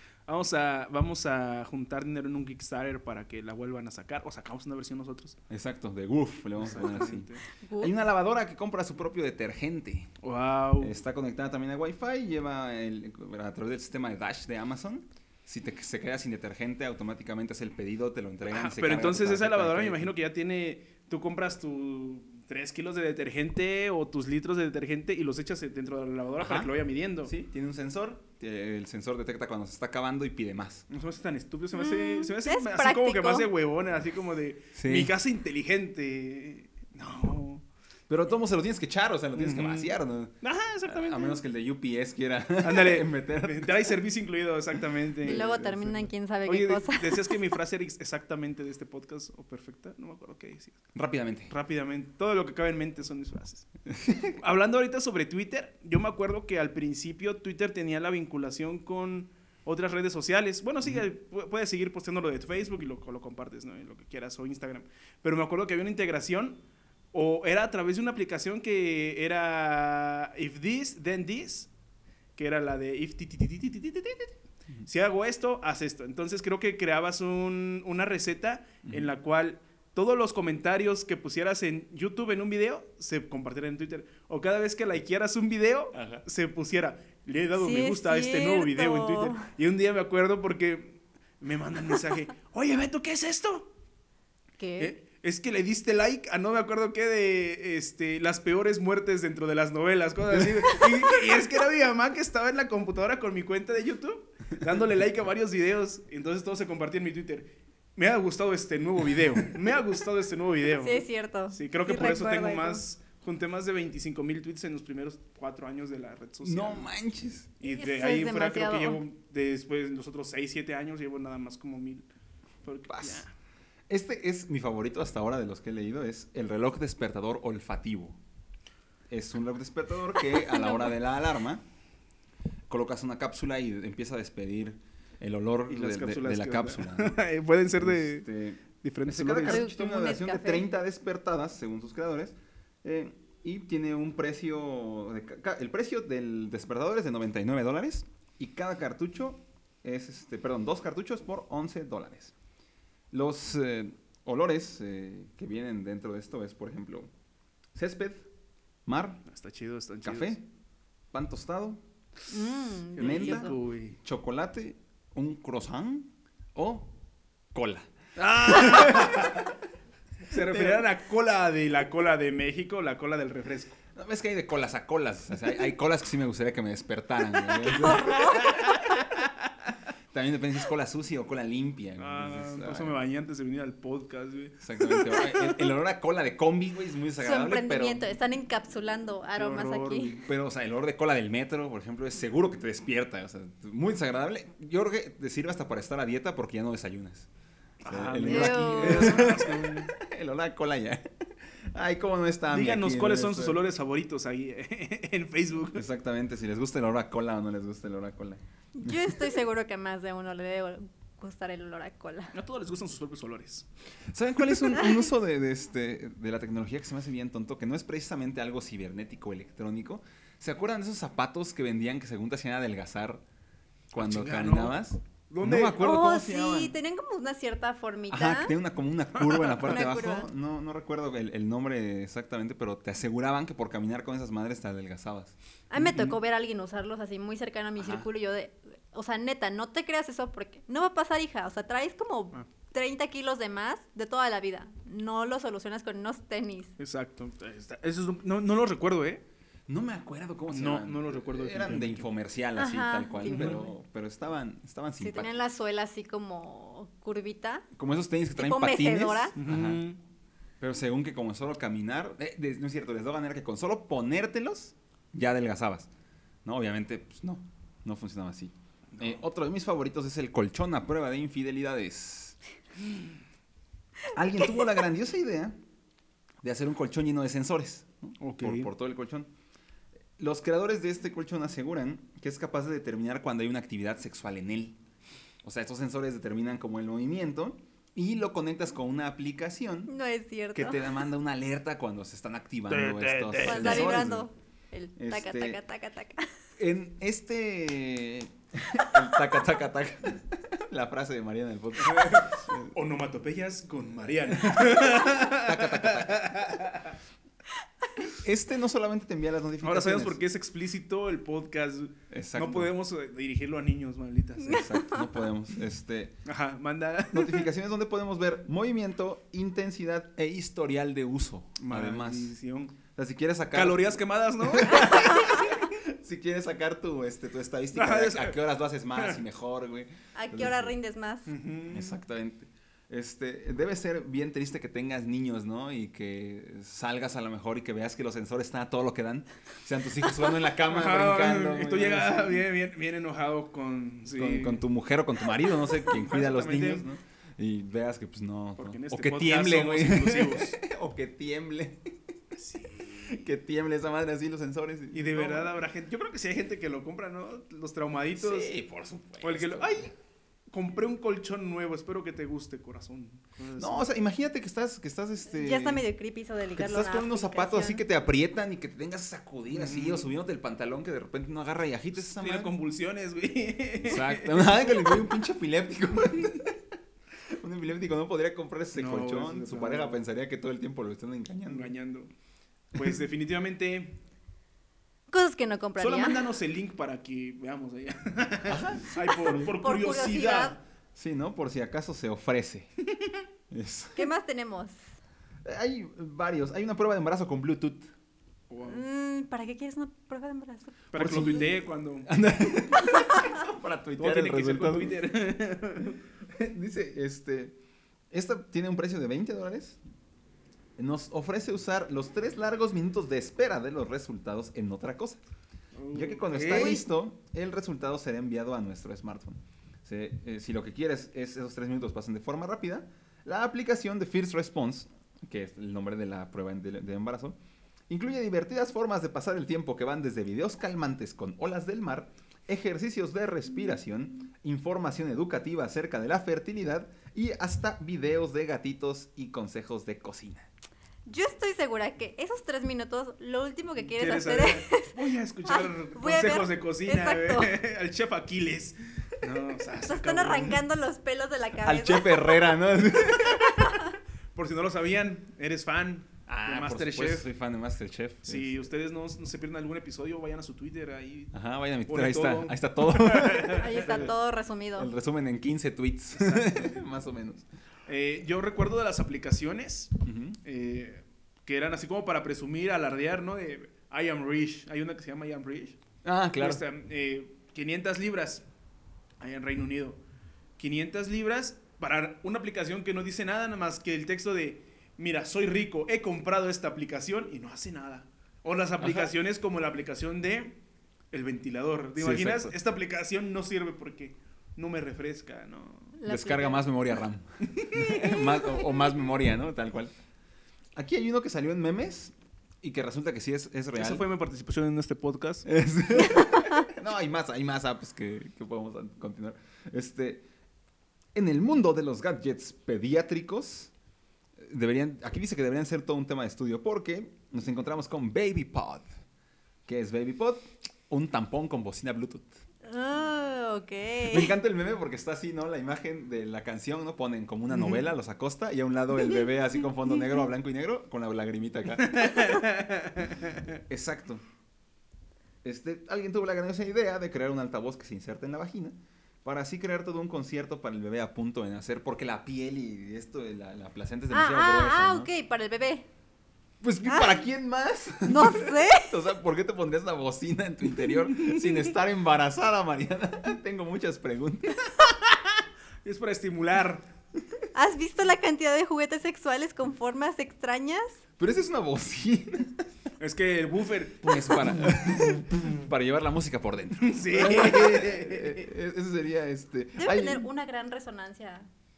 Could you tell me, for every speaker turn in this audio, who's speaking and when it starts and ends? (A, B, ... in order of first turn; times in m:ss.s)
0:00.3-0:05.4 A
0:05.5-0:10.1 B
0:06.6-0:07.4 A
0:07.6-0:07.9 C
0:10.2-0:10.9 A
0:10.8-0:20.1 B
0:18.5-0:27.3 A
0:26.4-0:26.7 B
0:27.2-0:30.8 B
0:30.9-0:37.6 A
0:31.7-0:33.5 C
0:34.8-0:35.1 B
0:38.1-0:40.4 B
0:39.3-0:41.4 A
0:40.9-0:44.0 B
0:42.6-0:50.8 A
0:45.2-0:46.0 B
0:45.2-0:47.4 C
0:50.9-0:51.5 B
0:51.5-0:53.7 A
0:53.9-0:54.4 B
0:54.4-1:06.6 A
1:07.1-1:11.7 A
1:12.4-1:33.7 A
1:25.9-1:26.2 B
1:27.6-1:29.5 C
1:34.6-1:35.0 C
1:34.8-1:56.9 A
1:50.8-1:52.8 C
1:56.4-1:57.5 B
1:57.6-2:02.1 A
1:57.6-1:59.0 C
2:02.6-2:03.3 A
2:02.9-2:03.2 B
2:03.9-2:08.2 B
2:09.1-2:11.6 B
2:10.5-2:10.8 C
2:12.7-2:17.2 B
2:15.7-2:18.3 A
2:17.8-2:32.3 B
2:18.8-2:19.6 A
2:19.4-2:20.6 C
2:33.1-2:37.1 B
2:37.7-2:38.3 B
2:38.8-2:39.2 B
2:39.3-2:40.4 A
2:40.0-2:40.4 B
2:41.1-2:41.8 B
2:42.3-2:43.5 C
2:43.0-2:44.0 A
2:43.0-2:46.9 B
2:47.5-2:47.9 B
2:48.2-2:49.5 A
2:48.5-2:49.3 B
2:50.3-2:53.8 A
2:50.5-2:50.8 B
2:53.9-2:58.6 B
2:57.7-2:58.5 C
2:58.2-2:59.2 A
3:00.1-3:03.0 B
3:02.0-3:04.6 A
3:04.6-3:08.0 B
3:07.2-3:10.2 C
3:09.4-3:10.2 A
3:10.2-3:17.3 B
3:17.8-3:19.9 A
3:17.8-3:23.6 B
3:18.3-3:19.3 C
3:22.5-3:25.9 A
3:25.7-3:29.2 B
3:28.7-3:32.3 C
3:32.3-3:33.6 A
3:34.1-3:43.2 B
3:43.9-3:44.8 A
3:43.9-3:46.7 B
3:45.3-3:45.8 A
3:45.8-3:48.5 C
3:48.1-3:55.3 B
3:49.1-3:49.9 A
3:49.6-3:50.3 C
3:55.7-4:06.7 C
3:57.8-3:58.0 B
4:06.8-4:09.2 A
4:09.7-4:15.3 B
4:10.5-4:12.1 A
4:12.6-4:13.7 C
4:13.2-4:13.6 A
4:15.0-4:17.6 C
4:17.7-4:19.8 B
4:18.4-4:19.3 C
4:19.4-4:20.0 A
4:20.6-4:25.9 B
4:26.4-4:32.4 B
4:28.9-4:29.2 A
4:34.1-4:35.6 B
4:36.4-4:39.3 B
4:38.2-4:38.7 A
4:40.2-4:44.8 B
4:45.4-4:49.9 B
4:49.9-4:50.9 C
4:50.5-4:54.3 B
4:52.7-4:54.1 A
4:53.4-4:56.3 C
4:55.0-4:55.6 B
4:56.6-5:02.7 B
5:01.8-5:07.0 A
5:04.3-5:06.3 B
5:08.1-5:10.2 B
5:09.6-5:14.8 A
5:12.1-5:12.7 B
5:14.4-5:16.2 B
5:14.5-5:15.0 C
5:16.2-5:17.5 A
5:17.1-5:22.4 B
5:21.6-5:22.8 A
5:22.9-5:30.7 B
5:23.5-5:25.6 A
5:27.7-5:28.4 A
5:30.1-5:31.3 C
5:31.3-5:32.0 A
5:31.7-5:42.4 B
5:40.6-5:44.6 A
5:44.1-5:52.0 B
5:45.7-5:46.8 A
5:48.6-5:50.6 A
5:52.4-5:52.9 A
5:52.9-5:55.5 B
5:54.9-5:58.5 A
5:58.1-5:59.9 B
5:59.2-5:59.9 A
6:00.5-6:03.9 A
6:03.6-6:05.8 B
6:05.3-6:07.8 C
6:06.6-6:12.5 B
6:09.5-6:10.1 A
6:11.9-6:15.0 A
6:13.8-6:16.6 B
6:17.3-6:21.7 B
6:18.7-6:20.0 A
6:21.4-6:22.1 A
6:22.7-6:24.0 A
6:25.1-6:26.2 C
6:25.8-6:30.6 A
6:28.5-6:29.4 B
6:28.9-6:30.6 C
6:31.0-6:32.7 B
6:33.5-6:34.1 B
6:34.0-6:34.8 C
6:35.4-6:37.9 B
6:38.5-6:38.8 A
6:38.6-6:41.3 C
6:40.9-6:42.2 A
6:41.0-6:45.0 B
6:44.0-6:46.0 A
6:46.4-6:47.6 B
6:48.1-6:49.8 B
6:50.8-6:55.2 B
6:55.7-6:56.8 A
6:55.9-7:07.4 B
7:07.9-7:20.5 B
7:21.0-7:27.5 C
7:23.8-7:30.6 A
7:29.8-7:32.4 C
7:31.6-7:33.8 B
7:33.4-7:33.8 C
7:34.3-7:37.2 A
7:36.3-7:38.6 B
7:38.2-7:44.1 A
7:41.3-7:44.1 B
7:43.5-7:44.9 C
7:44.8-7:47.4 B
7:46.1-7:46.8 A
7:47.9-7:55.8 A
7:50.0-7:50.4 B
7:56.0-7:56.6 B
7:56.4-7:58.4 A
7:59.2-8:00.0 A
8:00.6-8:10.6 A
8:08.8-8:09.1 B
8:11.1-8:16.0 A
8:12.0-8:12.5 B
8:16.0-8:16.7 C
8:16.0-8:19.9 B
8:17.5-8:17.9 A
8:20.7-8:24.0 B
8:23.7-8:25.5 A
8:25.4-8:30.2 B
8:31.1-8:33.7 B
8:34.4-8:38.8 B
8:39.6-8:42.3 B
8:42.6-8:44.3 C
8:44.0-8:52.3 B
8:51.8-8:53.4 A
8:53.7-8:54.2 B
8:55.4-9:05.1 B
9:04.1-9:05.8 C
9:06.6-9:14.9 B
9:06.8-9:07.2 C
9:08.0-9:08.9 C
9:15.8-9:16.9 A
9:17.5-9:21.0 C
9:21.2-9:22.6 B
9:23.0-9:25.4 A
9:24.0-9:30.3 B
9:26.8-9:28.5 A
9:29.8-9:31.5 C